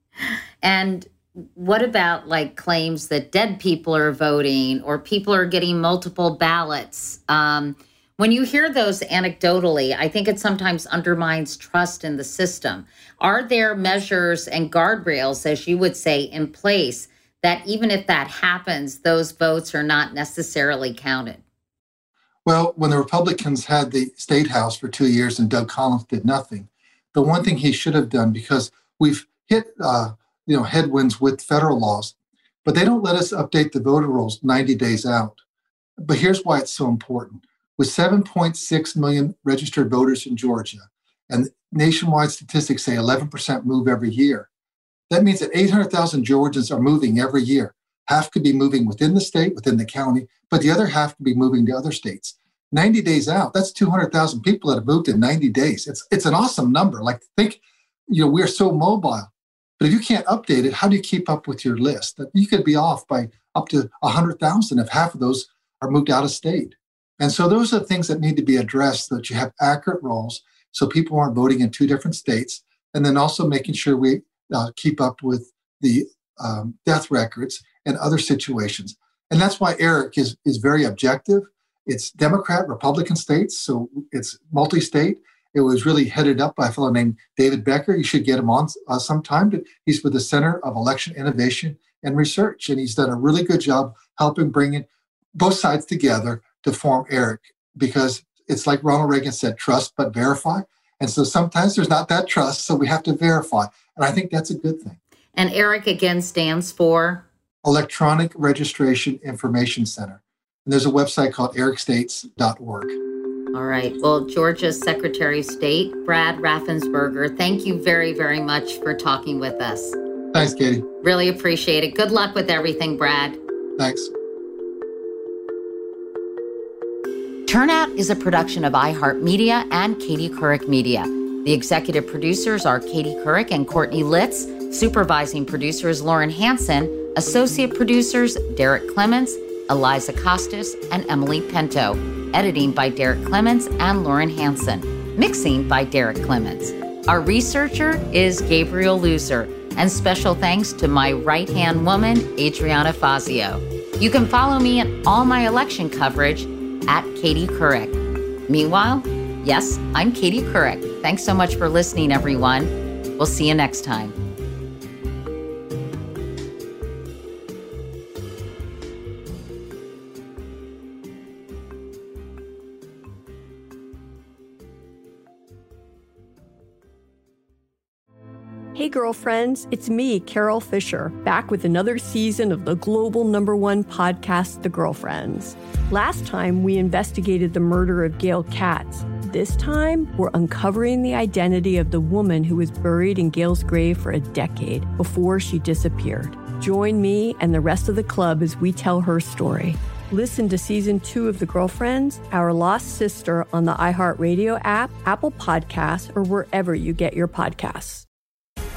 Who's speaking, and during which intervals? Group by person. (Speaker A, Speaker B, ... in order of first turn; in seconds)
Speaker A: 0.6-21.4, 105.3-107.2, 113.5-120.0, 121.0-123.4, 127.5-164.2
Speaker B: 22.4-32.1, 32.6-35.4, 36.0-44.5, 45.1-105.0, 107.6-113.0, 120.3-120.8, 123.8-124.1
Speaker C: 178.7-208.1